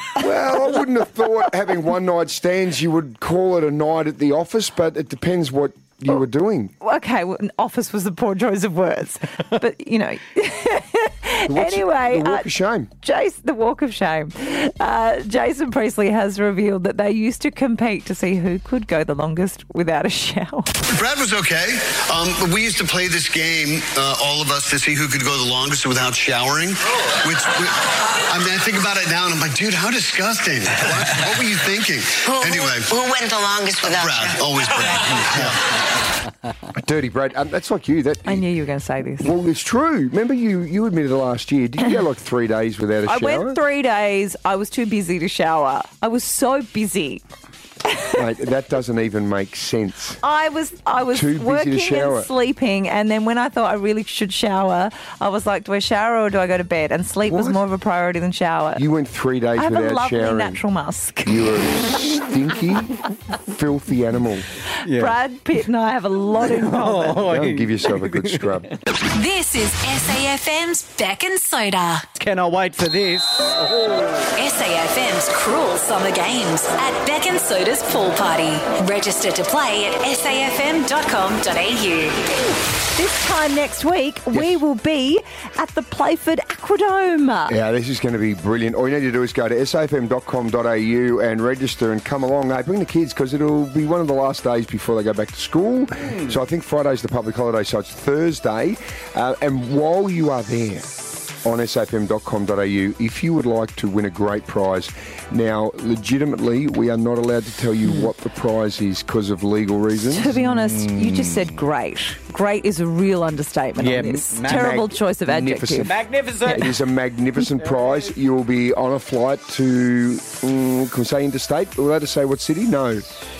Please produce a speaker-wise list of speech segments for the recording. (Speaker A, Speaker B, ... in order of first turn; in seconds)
Speaker A: 0.2-6.7, 11.5-12.9, 36.8-38.4, 39.2-43.6, 48.1-50.2, 51.1-52.3, 57.3-57.6, 58.8-60.6, 61.2-64.5, 67.2-68.7, 84.3-84.6, 87.5-100.9, 101.4-110.3, 115.2-116.0, 116.5-123.0
Speaker B: 6.8-12.5, 13.0-20.7, 38.2-39.3, 43.0-47.2, 47.9-48.1, 50.2-58.8, 59.6-61.4, 64.9-67.3, 82.9-87.5, 110.0-115.9
Speaker C: 20.9-32.9, 33.8-35.6
Speaker D: 32.2-34.4
Speaker E: 64.8-65.2, 66.5-68.5, 72.2-74.3, 110.3-111.5, 113.8-114.9, 115.8-116.7, 117.6-118.1
Speaker F: 69.1-72.0, 74.3-82.3